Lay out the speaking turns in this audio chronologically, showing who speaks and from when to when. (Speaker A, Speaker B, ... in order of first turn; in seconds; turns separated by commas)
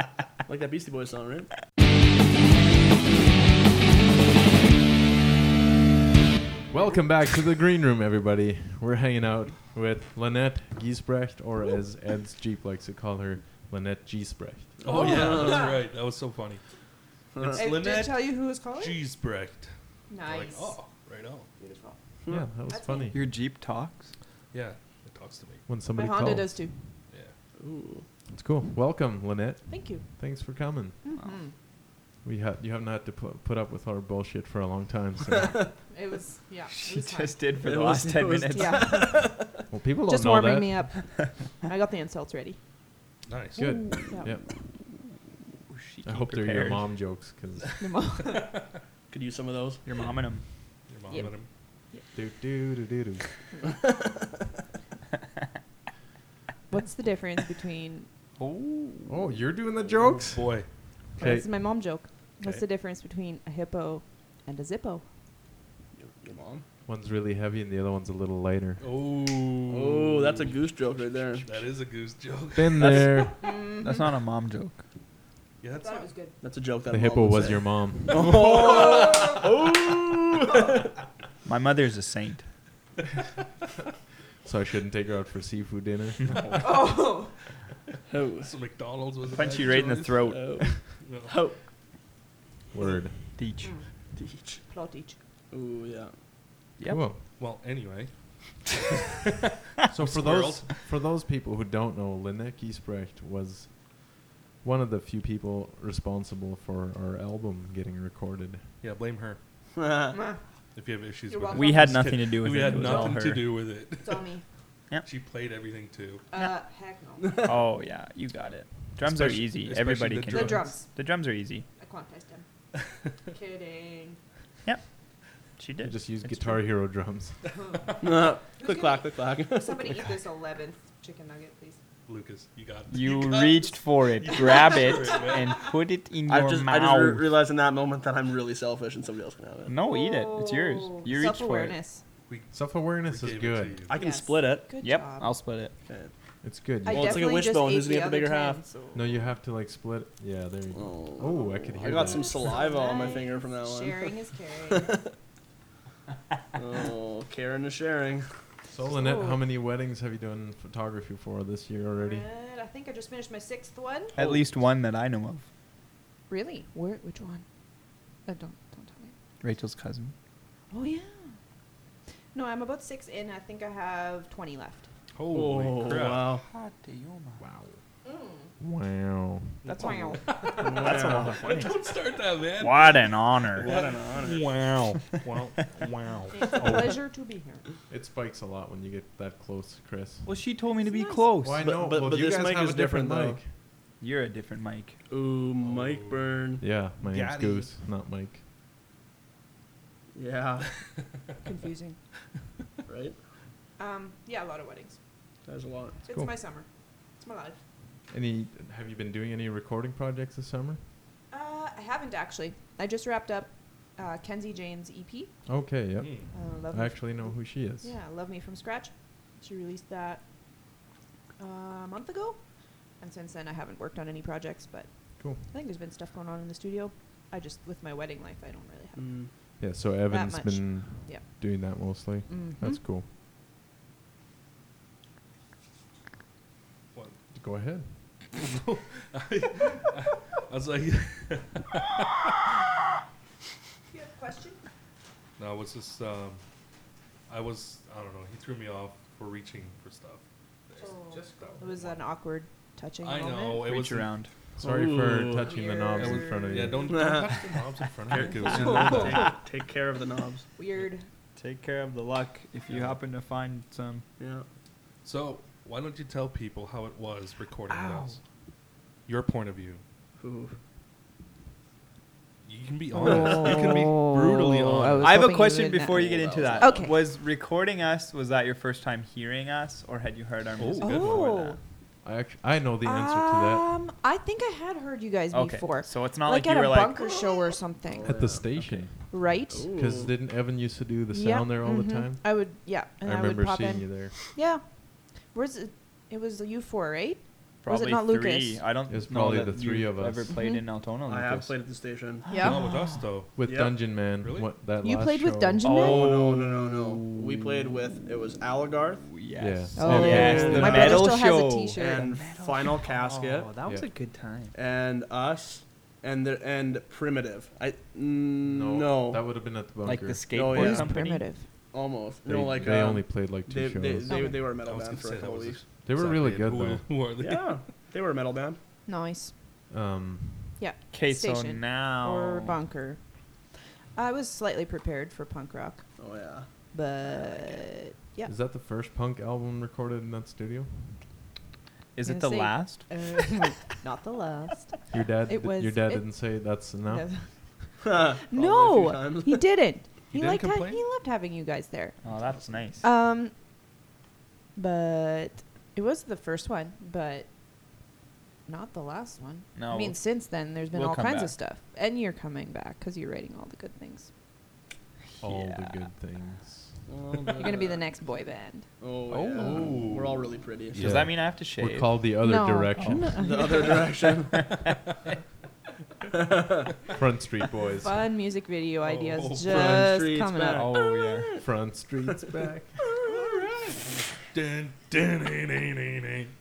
Speaker A: 0.5-1.5, Speaker B: 6.7-15.1, Speaker A: 14.8-15.7, Speaker C: 14.8-16.6, Speaker D: 14.9-15.8, Speaker A: 17.3-17.6, Speaker C: 17.4-21.5, Speaker D: 17.5-19.0, Speaker D: 20.1-20.8, Speaker D: 21.6-22.0, Speaker B: 22.3-23.2, Speaker D: 22.7-23.1, Speaker E: 23.1-24.1, Speaker C: 24.5-25.7, Speaker B: 25.7-27.0, Speaker D: 25.9-26.8, Speaker A: 27.6-28.1, Speaker B: 28.3-31.0, Speaker D: 29.7-30.1, Speaker D: 31.0-31.5, Speaker B: 32.2-35.7, Speaker D: 35.9-37.4, Speaker E: 36.7-39.0, Speaker A: 37.6-39.4, Speaker D: 38.5-39.2, Speaker B: 39.7-41.0, Speaker D: 40.1-42.6, Speaker C: 43.3-44.0, Speaker D: 43.6-44.3, Speaker B: 43.6-44.4, Speaker E: 45.7-46.9, Speaker B: 46.0-47.8, Speaker D: 47.8-48.5, Speaker C: 48.2-48.7, Speaker A: 49.1-49.8, Speaker E: 49.9-50.5, Speaker C: 50.9-51.5, Speaker D: 51.1-52.0, Speaker B: 52.1-53.3, Speaker A: 53.8-54.1, Speaker D: 56.7-58.1, Speaker E: 58.4-59.3, Speaker B: 59.1-61.5, Speaker C: 60.2-60.7, Speaker D: 61.2-65.0, Speaker A: 66.0-66.6, Speaker B: 66.9-68.8, Speaker C: 68.8-70.5, Speaker A: 69.7-71.5, Speaker C: 71.4-73.3, Speaker B: 72.5-73.5, Speaker D: 73.4-74.1, Speaker E: 73.8-74.8, Speaker C: 75.6-76.1, Speaker D: 75.8-76.4, Speaker A: 76.4-80.8, Speaker B: 76.9-78.8, Speaker C: 78.4-79.2, Speaker D: 78.9-79.3, Speaker E: 81.5-82.5, Speaker B: 84.4-86.3, Speaker D: 86.6-87.3, Speaker A: 88.1-88.5, Speaker C: 88.4-90.3, Speaker E: 89.3-90.9, Speaker A: 90.3-91.6, Speaker C: 91.0-91.3, Speaker B: 92.7-93.4, Speaker E: 93.4-93.8, Speaker A: 94.2-94.6, Speaker D: 94.5-95.2, Speaker A: 95.5-96.1, Speaker E: 96.8-97.0, Speaker B: 96.9-97.2, Speaker C: 97.4-98.7, Speaker B: 99.9-108.8, Speaker C: 100.0-100.8, Speaker C: 108.8-109.4, Speaker A: 109.8-110.2, Speaker C: 110.8-114.4, Speaker D: 111.3-112.0, Speaker E: 111.5-113.5, Speaker D: 112.7-113.0, Speaker D: 114.0-114.4, Speaker C: 115.0-116.2, Speaker D: 116.3-117.5, Speaker E: 117.5-121.7, Speaker C: 119.0-120.8, Speaker D: 120.3-120.9, Speaker D: 121.8-122.5, Speaker D: 123.3-124.2, Speaker E: 125.6-126.5, Speaker B: 125.8-127.4, Speaker D: 127.6-128.0, Speaker A: 128.0-129.9, Speaker D: 128.5-131.8, Speaker C: 132.1-135.7, Speaker E: 132.9-137.3, Speaker A: 136.3-139.7, Speaker E: 139.7-141.8, Speaker D: 139.8-142.0, Speaker C: 142.3-143.9, Speaker B: 142.5-143.8, Speaker A: 143.9-144.7, Speaker D: 143.9-145.4, Speaker E: 144.8-145.7, Speaker A: 145.8-146.1, Speaker B: 146.4-147.2, Speaker D: 146.8-149.1, Speaker A: 146.9-148.6, Speaker B: 148.9-152.3, Speaker A: 150.7-154.2, Speaker D: 152.0-154.9, Speaker A: 154.7-155.1, Speaker A: 156.6-158.3, Speaker B: 158.7-162.3, Speaker D: 159.0-159.4, Speaker D: 162.0-164.1, Speaker C: 164.2-164.5, Speaker E: 164.2-165.5, Speaker D: 166.3-167.4, Speaker D: 168.2-169.1, Speaker E: 169.4-170.2, Speaker D: 170.7-171.3, Speaker D: 172.3-174.9, Speaker C: 175.2-176.3, Speaker A: 175.3-176.4, Speaker E: 176.4-177.4, Speaker B: 177.4-177.8, Speaker D: 178.1-178.3, Speaker B: 178.6-179.7, Speaker E: 179.7-181.8, Speaker C: 179.7-186.4, Speaker D: 179.8-180.2, Speaker A: 180.6-181.6, Speaker E: 182.6-183.7, Speaker A: 183.6-184.5, Speaker E: 185.0-185.8, Speaker D: 186.3-187.6, Speaker B: 186.6-187.0, Speaker B: 187.9-190.3, Speaker E: 190.2-191.6, Speaker D: 190.8-191.3, Speaker B: 191.4-193.5, Speaker A: 191.6-193.4, Speaker E: 194.0-195.0, Speaker A: 195.1-196.6, Speaker C: 195.6-196.3, Speaker B: 196.6-198.4, Speaker C: 197.0-197.7, Speaker A: 200.2-200.7, Speaker D: 201.4-202.0, Speaker A: 202.9-203.2, Speaker D: 203.8-205.0, Speaker A: 205.5-206.0, Speaker D: 206.1-207.6, Speaker B: 208.1-210.8, Speaker D: 211.3-215.3, Speaker B: 215.5-217.9, Speaker C: 216.0-216.3, Speaker D: 216.3-220.2, Speaker D: 221.4-229.2, Speaker B: 225.2-225.4, Speaker A: 229.0-229.3, Speaker B: 229.6-233.1, Speaker D: 230.1-231.2, Speaker D: 232.3-232.8, Speaker C: 236.9-237.2, Speaker B: 237.3-238.3, Speaker C: 238.3-242.6, Speaker D: 243.9-244.6, Speaker C: 245.4-246.4, Speaker C: 247.3-251.0, Speaker B: 250.8-252.0, Speaker D: 250.8-253.7, Speaker C: 253.0-254.2, Speaker E: 253.6-254.3, Speaker B: 254.6-256.9, Speaker A: 254.6-255.5, Speaker D: 255.4-257.5, Speaker C: 256.0-259.3, Speaker A: 256.9-257.5, Speaker A: 258.1-260.5, Speaker D: 258.2-259.4, Speaker E: 258.5-259.3, Speaker D: 260.6-261.1, Speaker E: 261.4-264.0, Speaker C: 262.7-263.0, Speaker A: 264.2-264.4, Speaker C: 265.0-268.2, Speaker E: 267.7-268.1, Speaker C: 269.1-269.8, Speaker A: 270.2-270.6, Speaker C: 272.4-275.3, Speaker D: 272.9-277.0, Speaker A: 273.1-273.6, Speaker E: 275.0-281.6, Speaker A: 275.9-276.9, Speaker C: 280.6-281.4, Speaker D: 280.8-281.6, Speaker B: 282.0-283.7, Speaker D: 282.8-288.5, Speaker E: 285.3-287.2, Speaker A: 287.2-288.7, Speaker B: 288.0-294.2, Speaker D: 289.1-289.7, Speaker A: 289.5-290.1, Speaker D: 291.1-298.6, Speaker E: 297.6-301.5, Speaker B: 298.9-300.4, Speaker D: 300.3-300.7, Speaker A: 301.1-302.5, Speaker D: 302.3-302.9, Speaker E: 302.4-303.0, Speaker C: 302.4-303.4, Speaker B: 303.4-305.6, Speaker A: 303.4-303.8, Speaker C: 304.1-304.5, Speaker D: 304.8-306.1, Speaker E: 305.6-307.7, Speaker A: 305.7-309.2, Speaker E: 309.1-314.5, Speaker B: 309.4-310.9, Speaker D: 309.8-312.1, Speaker A: 309.9-311.1, Speaker A: 311.8-313.5, Speaker A: 314.5-319.2, Speaker B: 318.4-320.2, Speaker E: 319.8-321.3, Speaker A: 320.3-320.9, Speaker D: 320.5-321.5, Speaker A: 321.7-325.6, Speaker B: 322.3-324.4, Speaker D: 324.1-324.5, Speaker C: 324.7-327.7, Speaker B: 325.8-326.9, Speaker A: 327.2-328.6, Speaker D: 328.9-329.3, Speaker B: 329.7-330.6, Speaker D: 330.6-336.0, Speaker E: 330.9-332.6, Speaker A: 336.0-336.5, Speaker D: 336.7-338.3, Speaker A: 337.1-337.6, Speaker B: 338.3-341.1, Speaker E: 341.9-342.9, Speaker D: 342.0-352.0, Speaker B: 344.9-347.4, Speaker A: 347.8-349.4, Speaker C: 350.1-350.8, Speaker E: 352.0-352.8, Speaker D: 352.8-353.3, Speaker D: 354.6-357.3, Speaker D: 358.5-364.1, Speaker E: 359.6-361.3, Speaker E: 365.2-365.9, Speaker B: 365.2-366.9, Speaker A: 366.9-367.9, Speaker D: 367.4-368.7, Speaker A: 368.8-370.8, Speaker B: 369.1-373.2, Speaker D: 369.4-369.7, Speaker C: 370.7-371.1, Speaker E: 370.8-372.1, Speaker D: 372.2-373.9, Speaker E: 372.8-373.7, Speaker A: 373.2-374.5, Speaker E: 374.4-374.8, Speaker A: 376.1-376.7, Speaker B: 376.9-378.1, Speaker D: 377.8-381.1, Speaker C: 378.8-380.0, Speaker A: 379.5-381.4, Speaker E: 380.5-381.3, Speaker B: 381.4-382.8, Speaker A: 382.9-383.4, Speaker D: 383.1-383.6, Speaker C: 384.3-386.3